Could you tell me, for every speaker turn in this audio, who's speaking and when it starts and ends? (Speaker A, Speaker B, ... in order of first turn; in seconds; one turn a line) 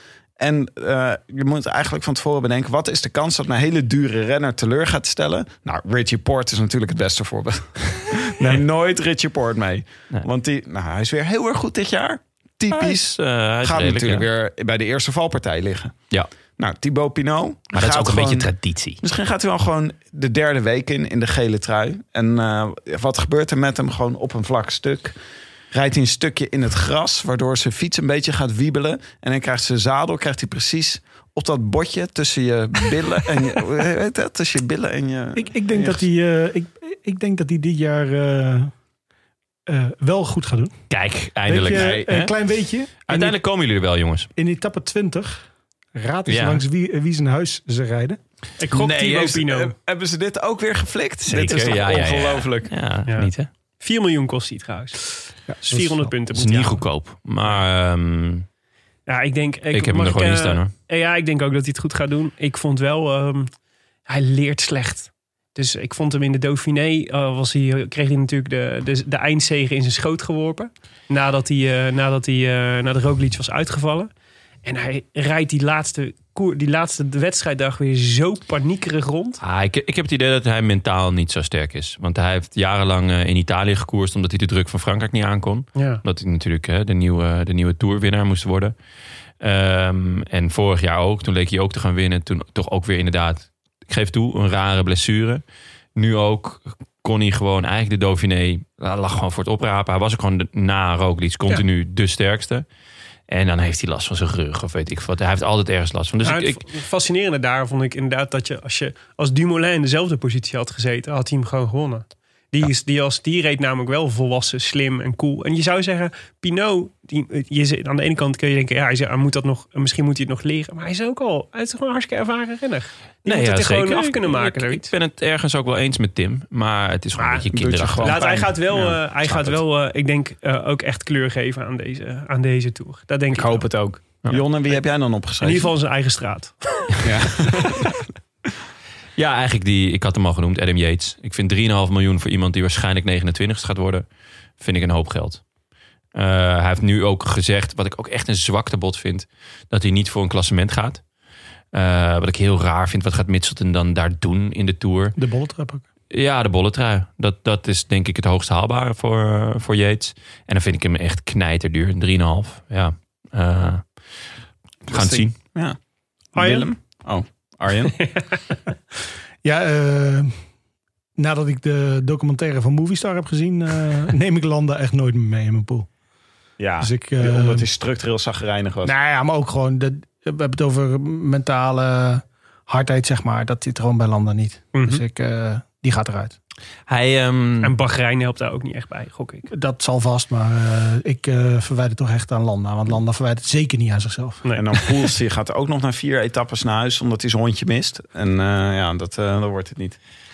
Speaker A: 0.4-16.0
Speaker B: 12.7-14.3
Speaker A: 16.6-18.5
Speaker B: 17.7-19.0
Speaker A: 19.0-25.2
Speaker A: 25.7-36.0
Speaker C: 35.4-38.7
Speaker C: 39.7-40.8
Speaker B: 40.9-42.3
Speaker C: 41.5-43.4
Speaker A: 41.7-42.1
Speaker B: 43.0-44.3
Speaker C: 44.4-48.2
Speaker B: 46.3-46.6
Speaker D: 48.6-49.7
Speaker A: 48.7-52.7
Speaker B: 51.3-53.5
Speaker D: 53.1-56.8
Speaker C: 55.5-56.1
Speaker B: 56.3-58.5
Speaker D: 59.1-63.5
Speaker B: 59.7-60.7
Speaker D: 64.1-74.1
Speaker D: 74.6-79.4
Speaker B: 79.4-88.7
Speaker D: 85.8-86.0
Speaker B: 89.4-95.4
Speaker B: 96.0-102.7
Speaker B: 103.3-106.6
Speaker D: 106.2-124.9
Speaker B: 123.2-128.2
Speaker D: 127.2-127.5
Speaker A: 127.5-129.6
Speaker D: 128.0-133.7
Speaker A: 133.3-135.7
Speaker D: 135.4-137.0
Speaker A: 137.0-138.0
Speaker B: 139.2-144.1
Speaker B: 144.6-145.4
Speaker B: 146.1-151.0
Speaker B: 151.7-155.2
Speaker C: 155.2-155.8
Speaker B: 156.1-164.2
Speaker B: 164.9-165.3
Speaker A: 164.9-165.8
Speaker A: 166.3-168.1
Speaker D: 166.3-166.7
Speaker C: 169.4-170.3
Speaker C: 171.2-175.9
Speaker A: 176.6-178.9
Speaker C: 176.8-177.7
Speaker C: 178.8-186.4
Speaker D: 184.7-185.0
Speaker B: 186.9-187.8
Speaker D: 187.6-189.5
Speaker C: 189.5-194.8
Speaker A: 194.6-200.0